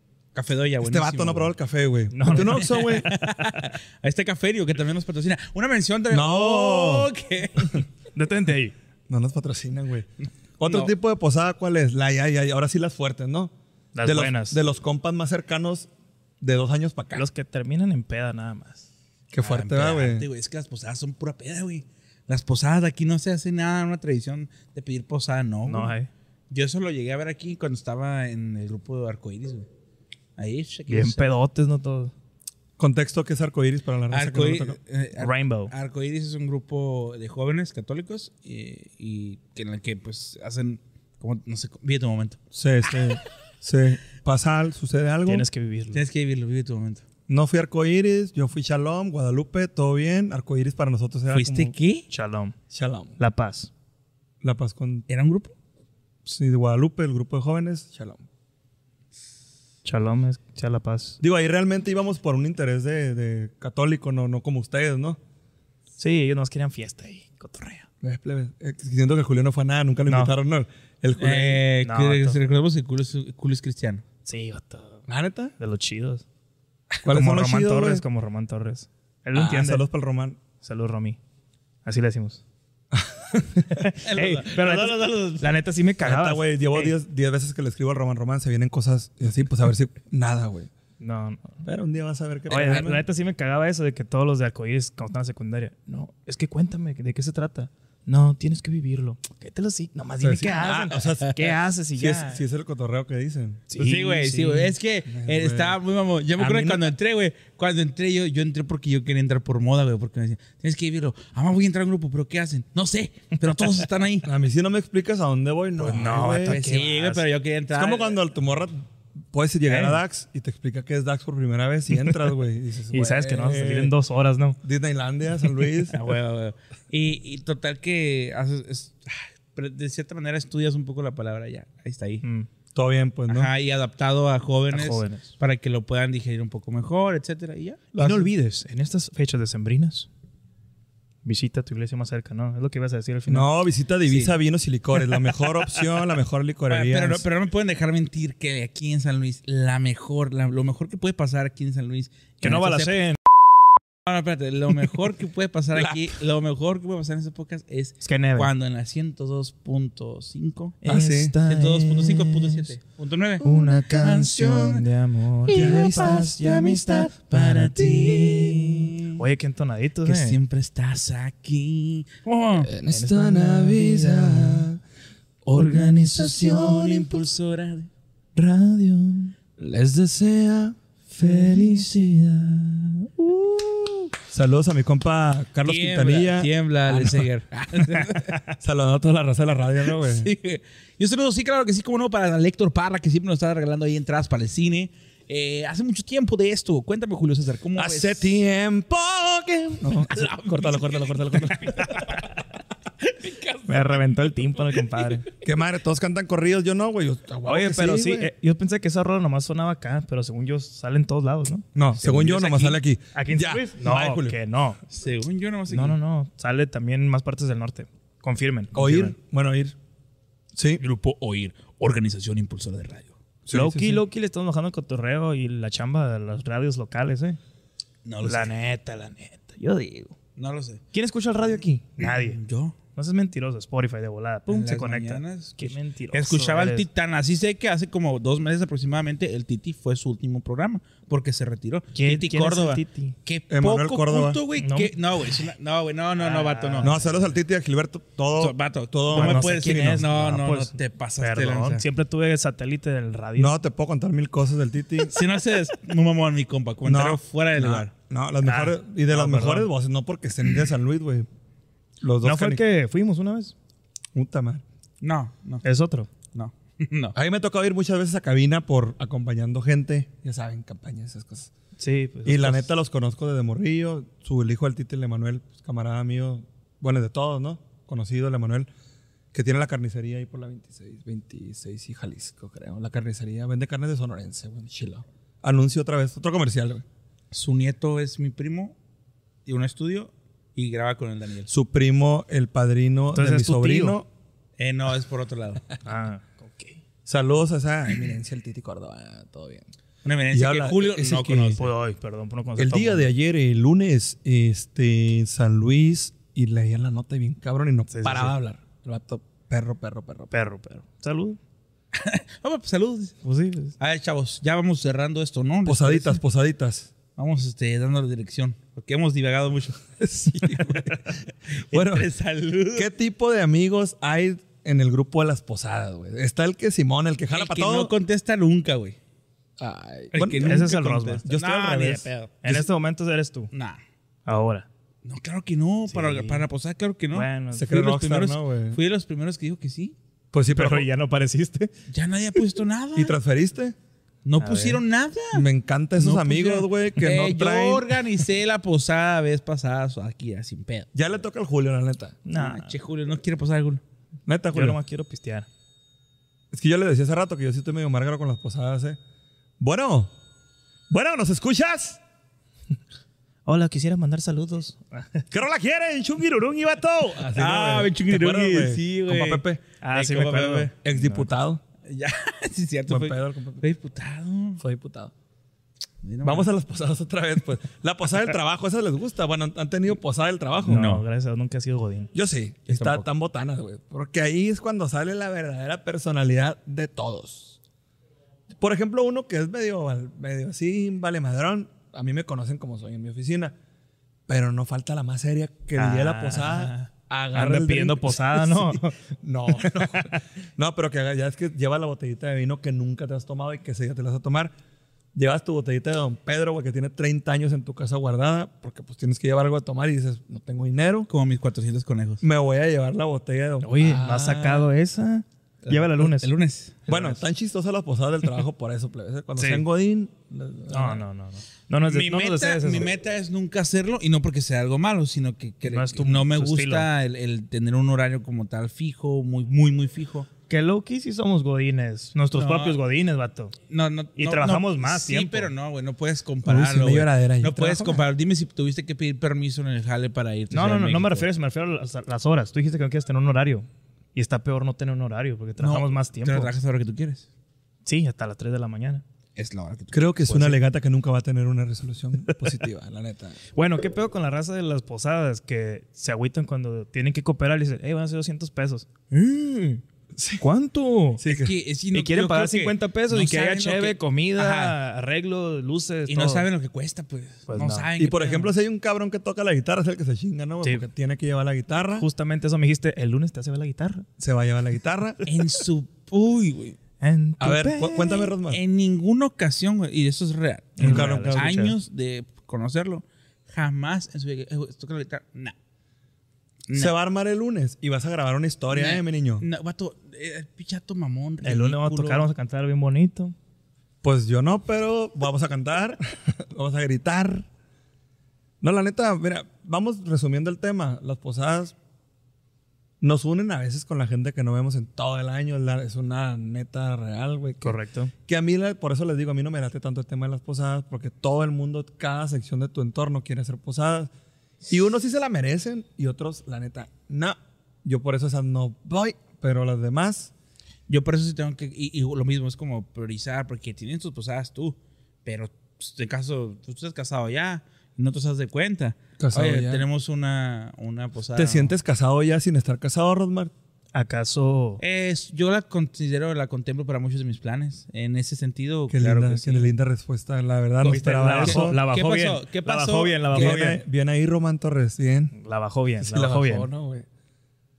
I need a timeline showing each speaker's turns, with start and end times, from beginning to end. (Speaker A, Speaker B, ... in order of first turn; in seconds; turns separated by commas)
Speaker A: 0.3-1.5, Speaker B: 0.8-3.1, Speaker C: 2.1-3.6, Speaker A: 2.3-7.8, Speaker B: 6.1-7.1, Speaker C: 8.2-8.7, Speaker B: 9.1-13.5, Speaker A: 10.7-10.9, Speaker C: 13.9-14.6, Speaker B: 14.0-15.9, Speaker B: 16.4-17.3, Speaker C: 17.2-18.9, Speaker B: 19.3-20.3, Speaker A: 19.4-25.9, Speaker C: 25.7-26.1, Speaker A: 26.5-29.7, Speaker A: 30.4-31.3, Speaker C: 30.9-32.1, Speaker B: 32.8-34.8, Speaker A: 34.1-42.4, Speaker C: 35.2-35.7, Speaker B: 42.5-45.5, Speaker C: 45.3-46.0, Speaker A: 45.9-47.0, Speaker B: 47.3-51.7, Speaker A: 51.3-52.1, Speaker C: 52.1-52.5, Speaker B: 52.7-53.2, Speaker C: 53.2-53.7, Speaker B: 54.4-55.1, Speaker A: 55.1-55.5, Speaker B: 56.2-58.2, Speaker C: 59.9-61.2, Speaker B: 61.2-65.2, Speaker C: 66.0-67.9, Speaker B: 68.0-71.6, Speaker C: 70.1-70.3, Speaker A: 71.2-74.0, Speaker C: 71.8-72.4, Speaker C: 74.3-75.0, Speaker B: 75.1-75.5, Speaker C: 75.6-76.2, Speaker B: 77.0-78.0, Speaker C: 77.0-79.8, Speaker B: 79.3-80.4, Speaker C: 80.6-81.2, Speaker C: 81.8-82.4, Speaker B: 82.9-83.9, Speaker C: 83.7-86.9, Speaker A: 84.0-85.5, Speaker B: 86.0-90.7, Speaker C: 91.0-91.6, Speaker B: 91.6-93.0, Speaker C: 92.5-102.4, Speaker B: 100.2-103.6, Speaker C: 103.7-104.8, Speaker A: 103.8-114.3, Speaker B: 105.1-105.8, Speaker C: 106.4-106.8, Speaker B: 114.2-116.6, Speaker C: 115.8-117.2, Speaker A: 116.4-118.2, Speaker B: 117.7-123.7, Speaker C: 119.7-120.0, Speaker C: 122.9-124.6, Speaker A: 123.3-123.9, Speaker B: 124.6-126.0, Speaker A: 125.9-132.2, Speaker C: 132.2-132.5, Speaker B: 132.7-133.5, Speaker A: 133.3-137.9, Speaker C: 134.7-135.3, Speaker B: 137.9-138.3, Speaker C: 138.0-140.1, Speaker C: 141.2-143.5, Speaker B: 143.3-147.2, Speaker A: 144.1-144.3, Speaker A: 146.7-153.0, Speaker C: 152.4-153.2, Speaker A: 154.1-160.8, Speaker C: 158.0-158.5, Speaker C: 160.8-162.7, Speaker B: 160.8-161.4, Speaker A: 161.4-164.8, Speaker C: 163.4-170.4, Speaker A: 165.5-169.2, Speaker B: 165.5-166.9, Speaker A: 170.0-172.7, Speaker B: 172.6-174.8, Speaker C: 172.9-174.7, Speaker B: 175.5-177.2, Speaker C: 175.6-176.6, Speaker A: 176.2-177.9, Speaker C: 178.4-179.3, Speaker B: 179.6-181.7, Speaker C: 181.2-184.0, Speaker B: 184.3-187.3, Speaker A: 185.7-188.4, Speaker C: 188.3-188.5, Speaker B: 188.6-190.3, Speaker A: 189.8-198.3, Speaker B: 197.8-202.0, Speaker A: 200.1-202.4, Speaker A: 203.0-205.3, Speaker C: 203.7-205.3, Speaker B: 205.4-208.3, Speaker C: 207.5-211.7, Speaker B: 211.8-214.4, Speaker A: 212.0-212.8, Speaker C: 213.2-214.8, Speaker A: 214.9-216.0, Speaker C: 215.7-219.2, Speaker B: 218.7-219.8, Speaker B: 220.6-220.8, Speaker A: 220.8-223.2, Speaker B: 223.5-224.0, Speaker C: 223.5-227.4, Speaker A: 228.1-228.5, Speaker C: 228.2-230.2, Speaker A: 230.4-230.8, Speaker C: 230.9-232.4, Speaker A: 232.0-232.8, Speaker C: 232.9-236.9, Speaker A: 234.5-247.0, Speaker C: 241.9-243.2, Speaker B: 243.5-244.4, Speaker C: 244.6-245.5, Speaker C: 246.2-247.1, Speaker B: 246.8-250.3, Speaker A: 248.4-251.8, Speaker C: 249.1-253.6, Speaker B: 253.4-255.2, Speaker A: 255.1-257.9, Speaker B: 256.8-261.3, Speaker C: 258.4-259.7, Speaker B: 262.0-262.6, Speaker C: 262.2-263.5, Speaker B: 264.1-264.6, Speaker A: 265.0-265.6, Speaker C: 265.6-266.1, Speaker A: 266.3-267.1, Speaker B: 267.1-271.5, Speaker C: 271.8-272.7, Speaker B: 272.2-278.7, Speaker B: 279.3-286.9, Speaker A: 287.3-288.8, Speaker A: 289.5-291.5, Speaker B: 291.5-294.1, Speaker C: 293.1-294.0, Speaker A: 294.6-295.6, Speaker C: 295.8-296.8, Speaker B: 297.1-299.7, Speaker A: 300.0-301.6, Speaker B: 300.3-301.7, Speaker C: 301.6-303.1, Speaker B: 302.6-310.3, Speaker C: 307.9-308.3, Speaker C: 310.3-311.4, Speaker A: 311.9-313.2, Speaker C: 313.2-313.8, Speaker A: 313.8-316.2, Speaker B: 315.7-316.9, Speaker A: 317.2-319.8, Speaker B: 320.0-322.1, Speaker A: 321.6-322.9, Speaker B: 322.8-327.9, Speaker A: 327.3-329.0, Speaker B: 329.6-330.7, Speaker A: 330.1-332.4, Speaker C: 330.4-331.2, Speaker B: 331.2-332.7, Speaker C: 332.4-333.5, Speaker A: 333.5-333.8, Speaker C: 334.3-334.7, Speaker A: 335.1-340.0, Speaker C: 335.9-336.4, Speaker C: 337.1-337.8, Speaker B: 337.5-338.8, Speaker B: 340.3-340.9, Speaker C: 340.5-341.7, Speaker A: 341.9-343.2, Speaker B: 343.0-343.8, Speaker A: 344.2-345.4, Speaker C: 344.4-344.8, Speaker B: 345.3-348.0, Speaker A: 346.0-350.9, Speaker B: 350.9-352.2, Speaker C: 352.3-352.7, Speaker A: 352.3-353.8, Speaker B: 354.3-354.8, Speaker C: 354.5-355.5, Speaker B: 356.5-359.0, Speaker B: 359.6-360.1, Speaker B: 360.9-362.0, Speaker C: 363.5-365.3, Speaker B: 365.3-369.6, Speaker A: 367.4-370.7, Speaker C: 369.8-371.3, Speaker B: 370.8-371.6, Speaker A: 371.9-374.6, Speaker B: 372.9-373.6, Speaker B: 374.6-375.1, Speaker A: 376.0-376.5, Speaker B: 376.2-381.0, Speaker C: 380.6-382.1, Speaker A: 380.7-381.0, Speaker B: 382.1-387.6, Speaker A: 382.7-383.1, Speaker B: 388.6-393.6, Speaker B: 394.3-404.5, Speaker C: 395.8-399.0, Speaker C: 399.5-400.2, Speaker B: 405.1-411.1, Speaker A: 411.1-412.2, Speaker B: 412.2-414.7, Speaker C: 413.6-416.3, Speaker A: 415.7-417.2, Speaker B: 416.9-421.0, Speaker C: 419.4-419.6, Speaker C: 420.7-422.9, Speaker A: 421.9-430.3, Speaker C: 425.6-426.9, Speaker C: 430.5-433.6, Speaker A: 432.3-432.8, Speaker A: 433.7-441.3, Speaker C: 434.2-435.5, Speaker B: 436.4-438.0, Speaker C: 440.5-446.5, Speaker A: 445.6-447.3, Speaker C: 447.9-449.0, Speaker A: 449.4-450.6, Speaker B: 449.9-453.4, Speaker C: 453.6-459.4, Speaker B: 460.1-460.5, Speaker C: 460.4-461.2, Speaker B: 461.2-461.5, Speaker A: 461.3-464.8, Speaker C: 461.9-466.5, Speaker A: 466.1-468.5, Speaker C: 467.5-467.9, Speaker B: 468.0-472.1, Speaker C: 472.0-474.1, Speaker B: 474.2-475.2, Speaker A: 475.2-476.8, Speaker C: 477.0-478.3, Speaker B: 477.4-478.6, Speaker A: 478.5-485.6, Speaker C: 480.8-481.8, Speaker B: 480.8-481.5, Speaker A: 486.7-486.9, Speaker B: 486.8-489.5, Speaker A: 488.7-492.3, Speaker C: 491.4-493.4, Speaker B: 494.0-497.5, Speaker B: 498.6-501.8, Speaker B: 503.0-514.1, Speaker C: 507.6-508.1, Speaker B: 514.7-520.3, Speaker A: 520.9-531.7, Speaker B: 529.2-529.9, Speaker B: 531.4-533.5, Speaker C: 533.9-534.8, Speaker A: 534.8-539.7, Speaker B: 538.9-541.8, Speaker C: 540.8-543.8, Speaker A: 540.9-543.6, Speaker B: 543.3-545.3, Speaker C: 545.4-546.7, Speaker B: 546.0-547.1